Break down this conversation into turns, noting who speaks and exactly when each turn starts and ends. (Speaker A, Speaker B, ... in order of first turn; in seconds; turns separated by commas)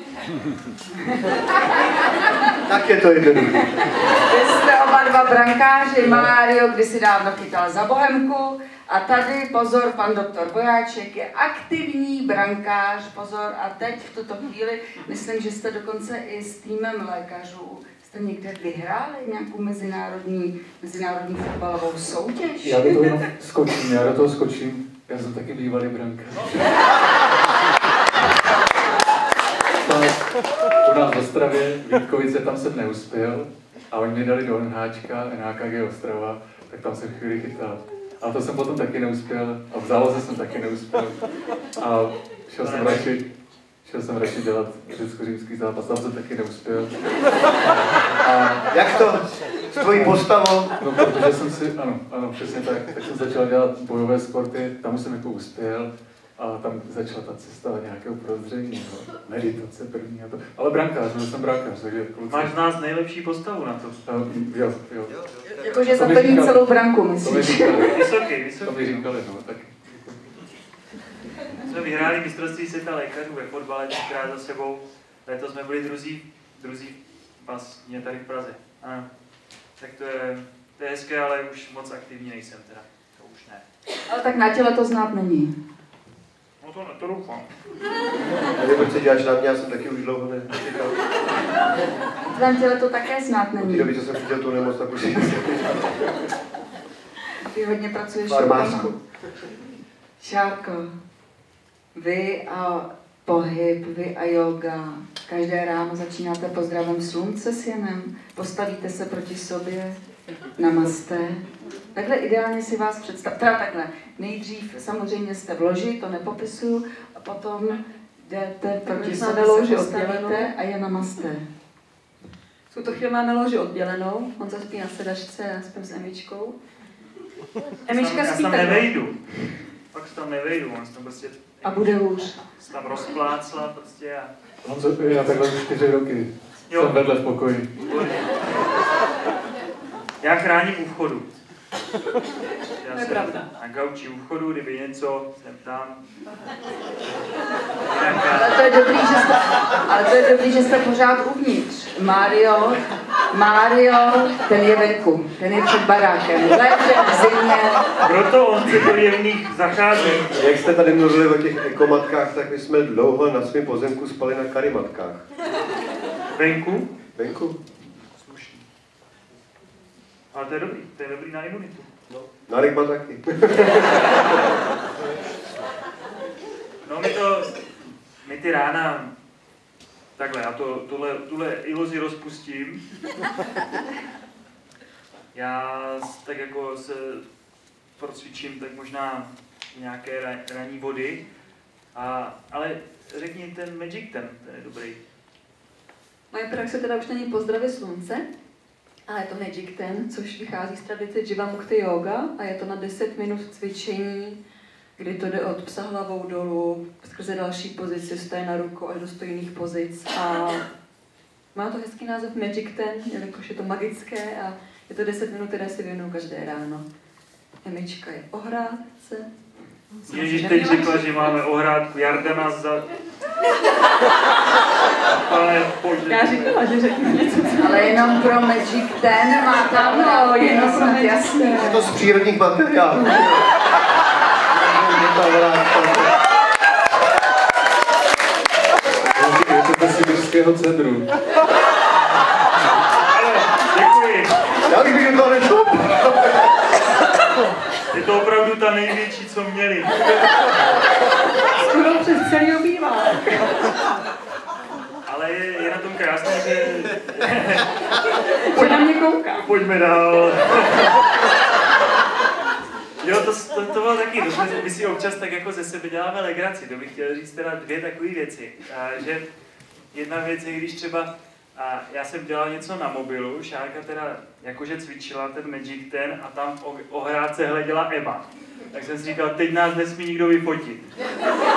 Speaker A: 1.1-2.5, Speaker B: 2.6-4.2, Speaker A: 4.0-23.2, Speaker B: 6.0-6.3, Speaker C: 22.6-26.8, Speaker C: 29.8-30.3, Speaker C: 30.8-41.2, Speaker C: 41.8-43.2, Speaker D: 42.6-43.1, Speaker C: 43.8-46.9, Speaker C: 48.2-48.7, Speaker B: 48.7-50.7, Speaker C: 49.9-50.2, Speaker C: 50.8-62.5, Speaker D: 62.3-64.0, Speaker C: 64.0-65.2, Speaker B: 65.1-66.1, Speaker A: 65.6-67.9, Speaker C: 65.9-70.2, Speaker D: 67.9-69.1, Speaker D: 71.6-79.1, Speaker D: 79.8-83.6, Speaker A: 84.1-85.5, Speaker D: 86.6-87.5, Speaker B: 88.5-91.0, Speaker A: 92.3-93.9, Speaker B: 93.6-96.1, Speaker A: 97.5-98.9, Speaker B: 98.3-99.0, Speaker A: 100.2-100.9, Speaker A: 101.9-110.0, Speaker A: 110.6-121.5, Speaker E: 118.8-120.5, Speaker E: 122.7-126.6, Speaker D: 127.9-129.2, Speaker E: 127.9-128.8, Speaker A: 127.9-128.8, Speaker D: 129.9-134.3, Speaker A: 131.6-132.4, Speaker C: 134.6-138.1, Speaker D: 136.7-137.0, Speaker D: 137.9-138.4, Speaker D: 140.2-141.4, Speaker D: 142.8-146.0, Speaker E: 142.9-143.4, Speaker D: 147.8-148.6, Speaker A: 148.3-157.8, Speaker D: 158.0-160.5, Speaker B: 160.2-165.2, Speaker D: 166.3-166.9, Speaker B: 167.2-167.6, Speaker D: 167.9-168.6, Speaker D: 170.3-171.9, Speaker B: 172.1-174.3, Speaker D: 176.8-177.6, Speaker D: 178.2-179.1, Speaker D: 180.2-182.8, Speaker D: 185.3-187.2, Speaker D: 188.0-191.2, Speaker D: 191.9-195.0, Speaker E: 196.3-198.2, Speaker E: 199.1-204.4, Speaker E: 205.0-210.7, Speaker E: 211.5-216.9, Speaker E: 217.6-219.3, Speaker E: 219.9-221.4, Speaker D: 220.1-222.9, Speaker D: 225.1-226.7, Speaker E: 226.1-228.0, Speaker A: 227.6-231.6, Speaker E: 229.6-231.9, Speaker B: 231.6-233.7, Speaker B: 234.5-236.2, Speaker C: 239.1-241.1, Speaker D: 243.0-244.5, Speaker B: 244.7-246.4, Speaker D: 247.9-250.0, Speaker E: 251.6-253.5, Speaker D: 255.1-258.0, Speaker A: 258.5-259.4, Speaker E: 258.5-258.9, Speaker D: 259.4-261.0, Speaker D: 263.0-269.2, Speaker D: 269.9-280.8